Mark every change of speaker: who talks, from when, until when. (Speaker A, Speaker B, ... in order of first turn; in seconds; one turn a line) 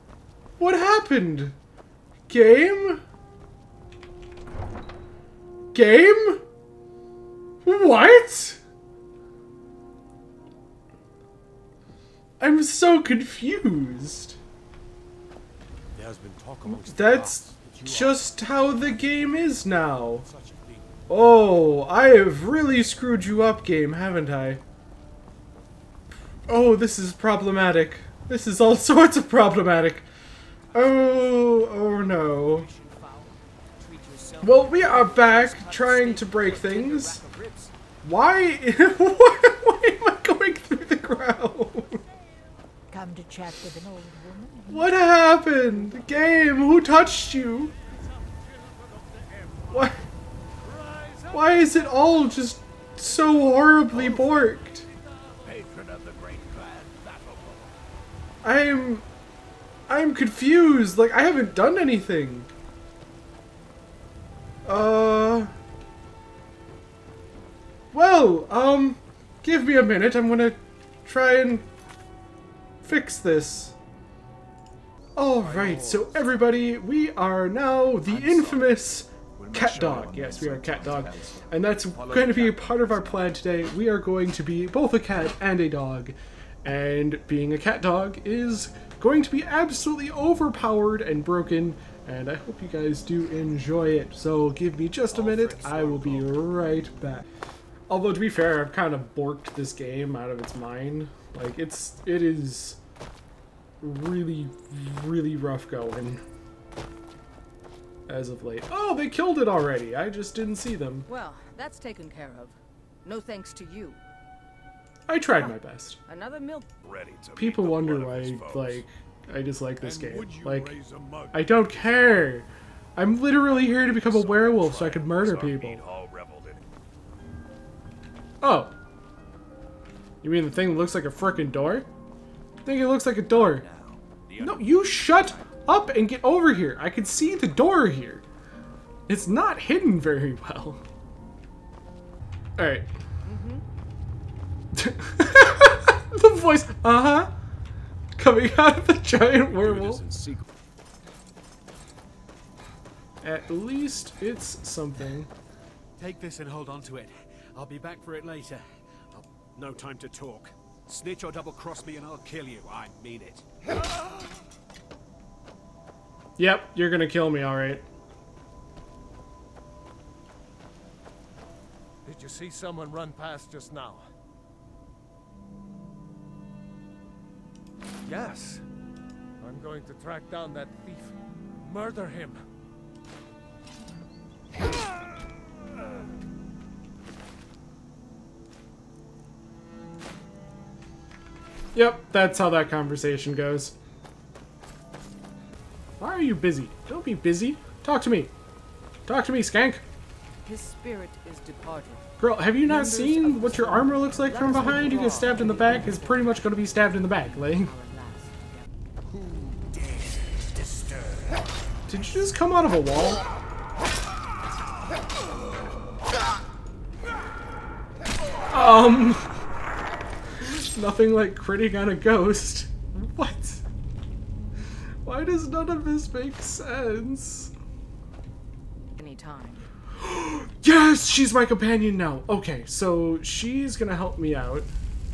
Speaker A: 0.6-1.6
Speaker A: 2.3-3.0
Speaker A: 5.7-6.4
Speaker A: 7.7-8.6
Speaker A: 12.4-14.4
Speaker B: 15.9-18.9
Speaker A: 16.6-20.3
Speaker B: 20.2-20.9
Speaker A: 21.1-24.6
Speaker A: 26.5-30.1
Speaker A: 30.7-32.7
Speaker B: 30.7-31.5
Speaker B: 32.5-33.0
Speaker B: 33.8-34.8
Speaker A: 34.4-37.2
Speaker C: 34.8-37.7
Speaker A: 38.0-42.0
Speaker D: 42.9-44.9
Speaker A: 44.7-47.7
Speaker A: 49.7-50.0
Speaker E: 50.7-51.4
Speaker A: 51.3-54.9
Speaker B: 55.5-57.7
Speaker A: 58.4-59.1
Speaker A: 59.9-62.5
Speaker A: 64.7-65.5
Speaker A: 67.9-71.7
Speaker A: 72.8-73.8
Speaker A: 75.2-97.3
Speaker B: 75.4-76.2
Speaker B: 78.1-78.7
Speaker B: 79.4-83.3
Speaker B: 95.1-96.3
Speaker A: 97.9-102.8
Speaker A: 103.8-106.2
Speaker A: 108.1-111.1
Speaker C: 111.1-114.0
Speaker A: 115.1-116.0
Speaker C: 116.1-116.7
Speaker B: 116.8-118.8
Speaker A: 117.3-120.7
Speaker B: 120.1-121.4
Speaker A: 121.3-125.8
Speaker B: 123.7-126.7
Speaker A: 128.4-128.7
Speaker A: 130.2-131.9
Speaker A: 132.7-133.7
Speaker B: 133.3-135.4
Speaker A: 134.4-138.2
Speaker A: 139.1-140.8
Speaker A: 142.6-142.9
Speaker C: 143.2-143.6
Speaker A: 144.7-147.3
Speaker A: 148.2-150.0
Speaker B: 149.4-150.4
Speaker A: 153.2-155.3
Speaker B: 156.0-163.4
Speaker A: 166.4-167.8
Speaker E: 172.1-174.1
Speaker E: 178.0-178.6
Speaker E: 179.4-182.4
Speaker A: 191.8-193.8
Speaker A: 196.0-198.3
Speaker A: 199.1-199.8
Speaker C: 200.4-202.1
Speaker A: 202.2-207.7
Speaker C: 202.7-206.5
Speaker C: 207.2-208.7
Speaker B: 209.1-211.4
Speaker A: 211.9-213.2
Speaker A: 218.5-219.3
Speaker A: 220.4-223.6
Speaker A: 225.1-227.5
Speaker C: 229.0-229.7
Speaker A: 230.0-234.7